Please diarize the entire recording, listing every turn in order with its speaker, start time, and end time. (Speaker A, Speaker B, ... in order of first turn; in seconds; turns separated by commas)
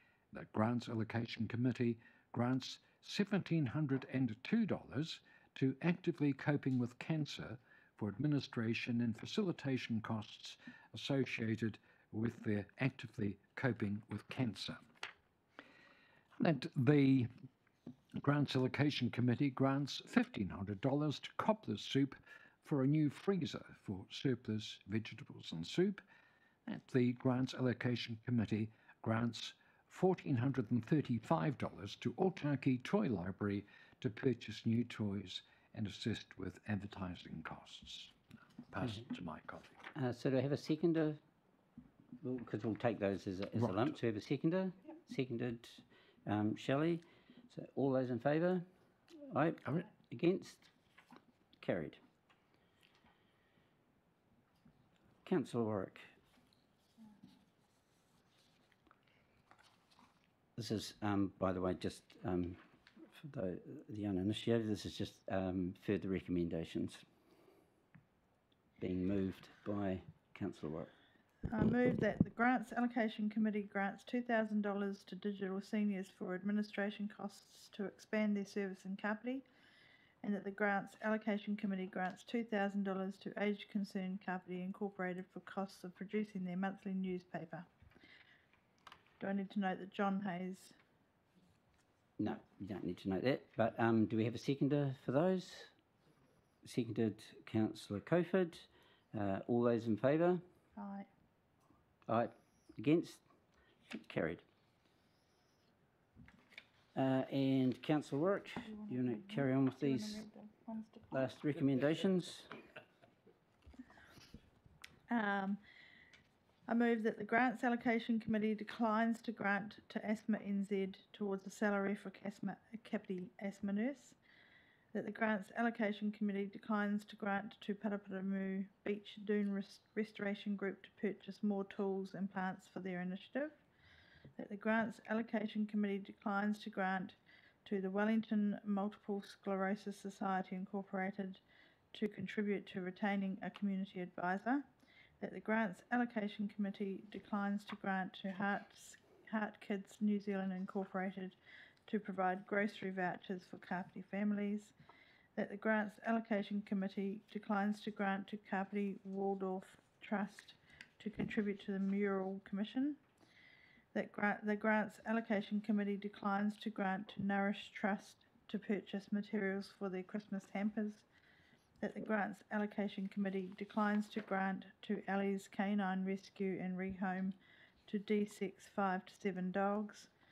Speaker A: 0.3-14.8, Speaker A: 16.4-17.3, Speaker A: 18.2-26.0, Speaker A: 26.6-38.1, Speaker A: 38.7-39.8, Speaker B: 40.0-41.2, Speaker B: 42.2-48.6, Speaker B: 49.3-50.7, Speaker B: 51.6-52.0, Speaker B: 55.2-56.1, Speaker B: 60.6-62.6, Speaker B: 63.1-67.0, Speaker B: 68.8-70.9, Speaker C: 71.5-79.4, Speaker C: 80.2-87.7, Speaker C: 89.2-90.7, Speaker B: 92.2-95.7, Speaker B: 96.6-100.4, Speaker C: 100.8-101.1, Speaker B: 102.1-103.2, Speaker B: 103.9-104.4, Speaker B: 106.9-110.2, Speaker C: 108.8-111.2, Speaker B: 111.1-112.5, Speaker C: 115.1-115.6, Speaker C: 116.7-124.2, Speaker C: 124.9-133.6, Speaker C: 134.4-141.4, Speaker C: 141.9-144.6, Speaker C: 145.2-154.7, Speaker C: 155.3-163.0, Speaker C: 163.9-171.1, Speaker C: 171.8-177.3, Speaker C: 177.9-180.1